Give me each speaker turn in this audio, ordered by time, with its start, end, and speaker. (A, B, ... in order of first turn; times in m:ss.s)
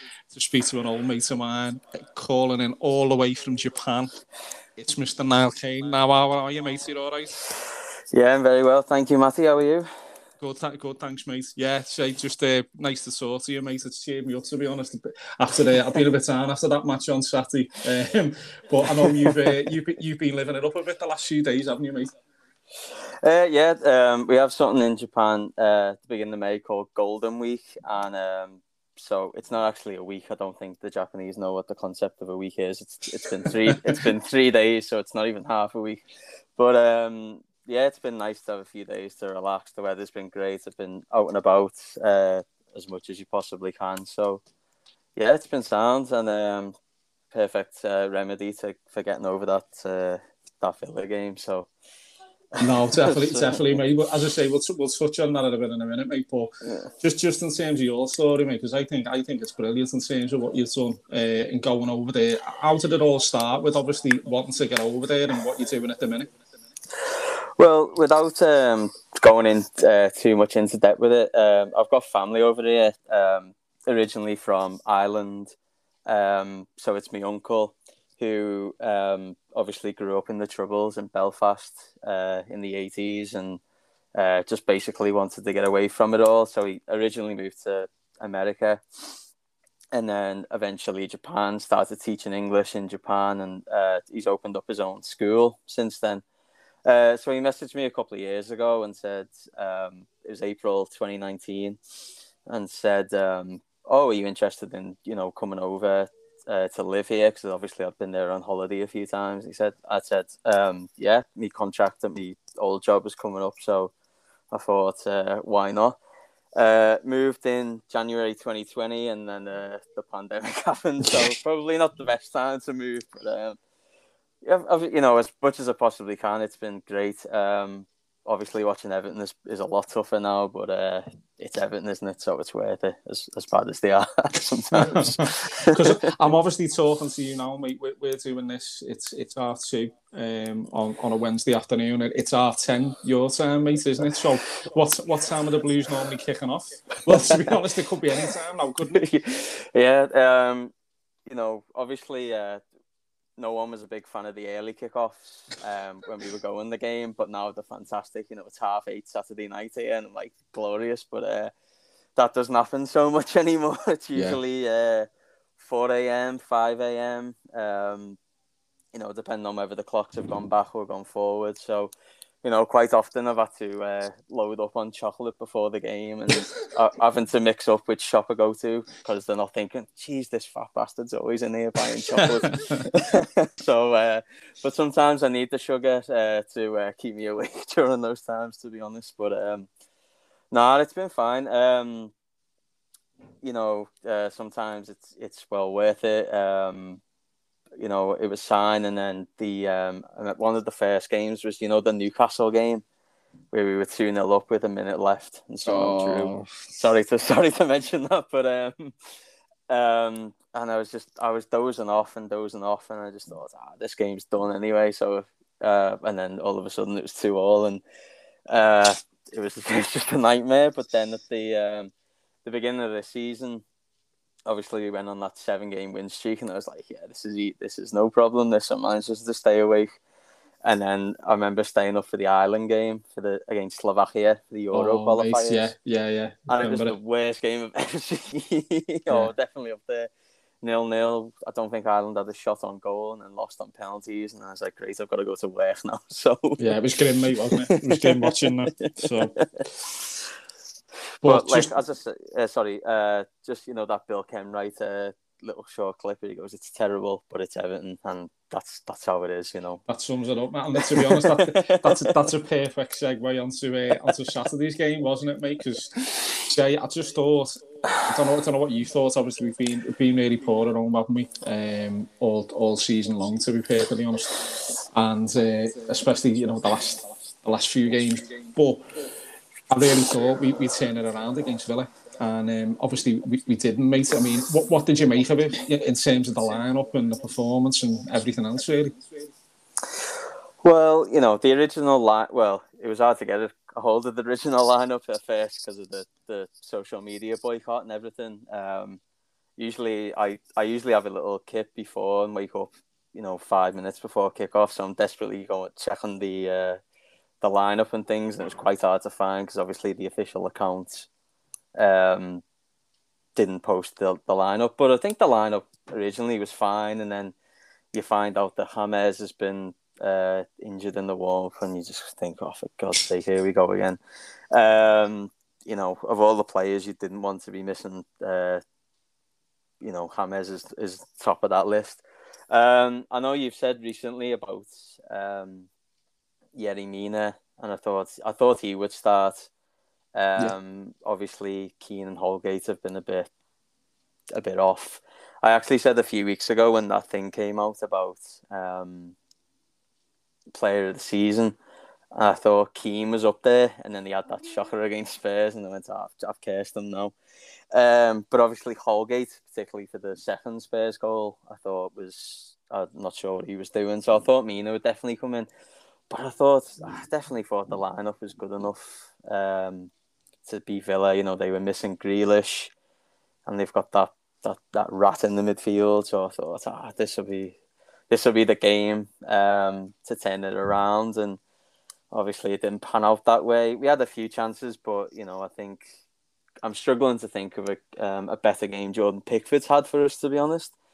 0:00.3-0:04.1 A
0:04.8-0:07.4 A
0:08.1-0:09.9 B
0:10.4-0:22.1 A
0:19.0-0:19.3 B
0:23.2-0:36.0 B
0:33.7-0:34.0 A
0:36.6-0:44.4 B
0:45.2-0:46.8 B
0:47.3-0:51.7 B
0:52.5-0:53.8 B
0:52.6-1:06.3 A
1:07.6-1:15.6 B
1:16.1-1:23.6 B
1:24.2-1:29.2 B
1:29.9-1:36.2 B
1:36.8-1:41.8 B
1:42.5-1:53.9 B
1:54.5-1:56.0 B
1:56.6-2:03.6 B
2:04.4-2:16.1 B
2:14.7-2:29.0 A
2:27.1-2:27.6 B
2:28.9-2:30.7 B
2:31.3-2:32.6 B
2:33.4-2:41.5 B
2:42.2-2:48.2 B
2:44.1-2:44.4 A
2:48.9-2:51.9 B
2:52.4-3:09.7 B
3:02.2-3:02.8 A
3:10.5-3:12.1 B
3:13.4-3:17.0 B
3:17.8-3:22.8 B
3:23.5-3:28.9 B
3:25.7-3:26.5 A
3:29.7-3:37.8 B
3:38.5-3:41.9 B
3:42.4-3:43.6 B
3:44.5-3:50.0 B
3:50.6-3:55.7 B
3:54.7-3:57.0 A
3:56.5-4:00.1 B
4:00.6-4:06.6 B
4:06.6-4:09.4 A
4:07.6-4:09.6 B
4:11.2-4:19.8 B
4:11.2-4:11.7 A
4:19.9-4:38.8 A
4:20.8-4:22.2 B
4:39.7-4:49.0 A
4:50.6-4:59.0 B
4:59.6-5:06.8 B
5:07.4-5:11.1 B
5:11.8-5:12.4 B
5:13.4-5:17.4 B
5:17.9-5:24.0 B
5:24.5-5:28.6 B
5:29.8-5:35.7 B
5:36.6-5:39.5 B
5:40.2-5:43.3 B
5:44.4-5:49.2 B
5:50.5-5:51.6 B
5:52.1-5:57.2 B
5:57.7-6:05.5 B
6:06.1-6:09.9 B
6:10.5-6:12.7 B
6:13.5-6:17.6 B
6:18.1-6:21.4 B
6:22.1-6:25.9 B
6:26.6-6:30.8 B